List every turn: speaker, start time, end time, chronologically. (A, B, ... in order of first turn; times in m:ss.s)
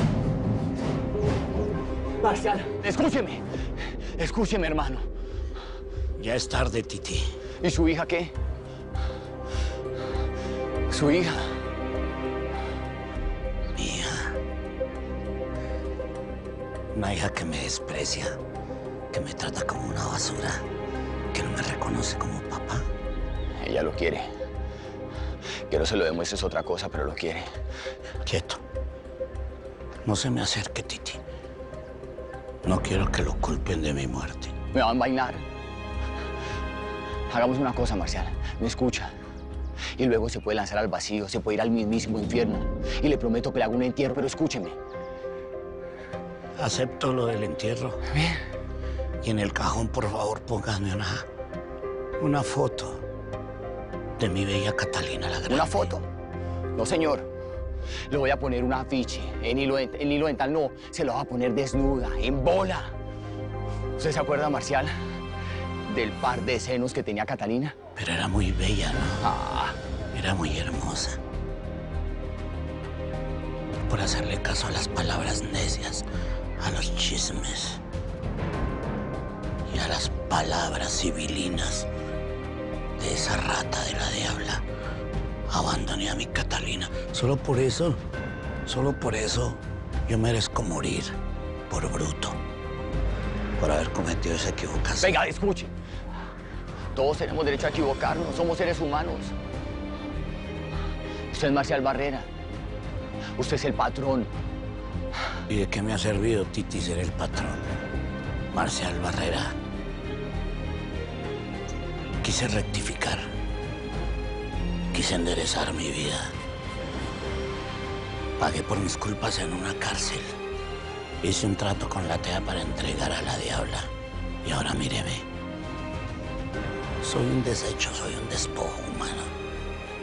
0:02.2-0:03.4 A
0:04.2-0:05.0 A
0:06.2-0:07.2 B
0:07.6-0:08.3 A
0:10.9-0:11.5 A
0:13.8-0:14.4 B
0:16.9-0:18.4 B
0:19.1-0:20.6 B
0:21.3-0:22.9 B
0:23.6-0:24.3 A
0:25.7-0:27.5 A
0:28.2-0:28.6 B
0:30.0-0:31.2 B
0:32.6-0:34.6 B
0:34.7-0:35.4 A
0:37.3-0:39.1 A
0:40.0-0:44.8 A
0:46.6-0:48.0 B
0:49.2-0:51.3 B
0:52.2-0:53.0 B
0:54.2-0:55.9 B
0:55.5-0:56.1 A
0:56.8-0:57.3 A
0:58.1-1:02.9 A
1:04.0-1:04.9 A
1:05.9-1:07.8 A
1:08.0-1:09.2 B
1:09.2-1:09.8 A
1:10.1-1:11.2 B
1:13.8-1:16.1 B
1:16.6-1:17.8 B
1:19.7-1:21.9 B
1:23.0-1:24.6 B
1:25.5-1:28.0 B
1:28.6-1:31.2 B
1:31.7-1:32.4 B
1:33.6-1:35.2 B
1:35.0-1:35.7 A
1:37.0-1:39.3 A
1:41.3-1:42.3 A
1:43.4-1:44.3 A
1:45.5-1:47.8 B
1:48.5-1:49.6 B
1:52.2-1:53.3 B
1:54.9-1:56.4 B
1:58.4-2:00.3 B
2:01.2-2:03.9 B
2:04.4-2:05.3 B
2:07.0-2:09.3 B